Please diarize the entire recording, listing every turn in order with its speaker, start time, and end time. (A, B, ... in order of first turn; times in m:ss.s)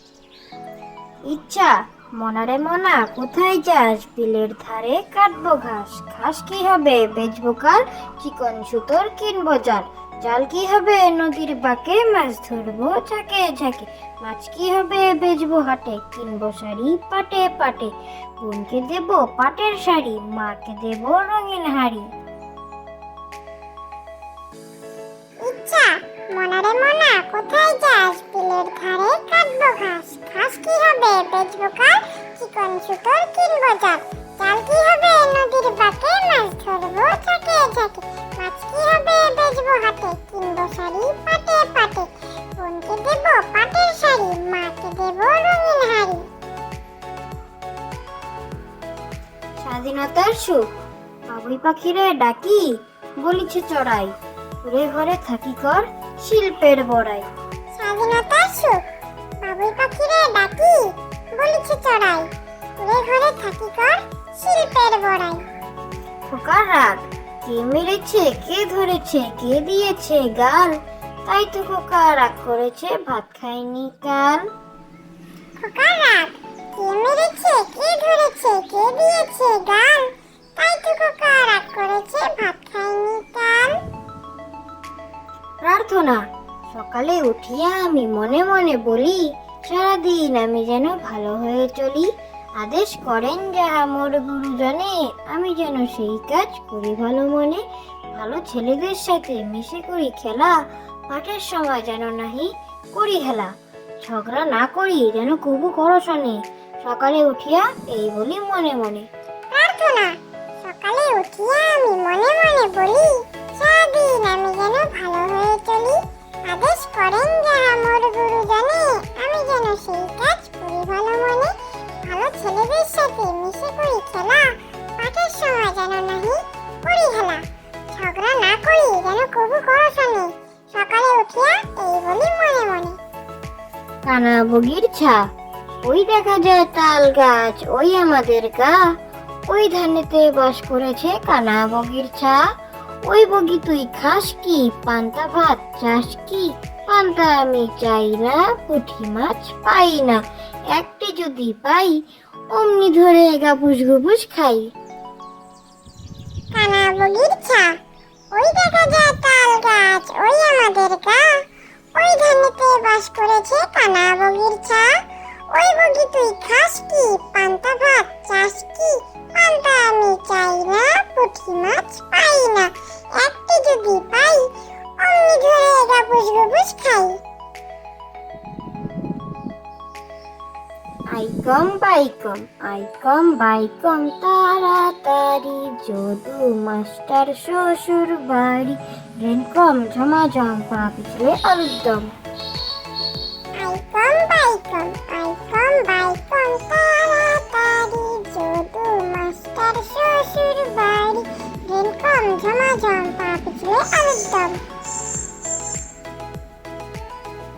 0:01.2-0:22.1 A
0:25.4-0:46.3 B
0:49.6-0:50.7 A
0:51.3-0:57.3 A
0:57.7-0:58.8 B
0:59.4-1:05.4 B
1:06.3-1:14.4 A
1:15.6-1:23.8 B
1:25.6-1:49.1 A
1:49.5-2:13.0 B
2:14.0-2:15.3 A
2:15.8-2:18.9 A
2:19.5-2:22.4 A
2:23.0-2:32.0 A
2:32.5-2:34.7 A
2:36.5-2:37.8 B
2:38.3-2:57.2 B
3:01.1-3:12.1 A
3:13.5-3:24.6 B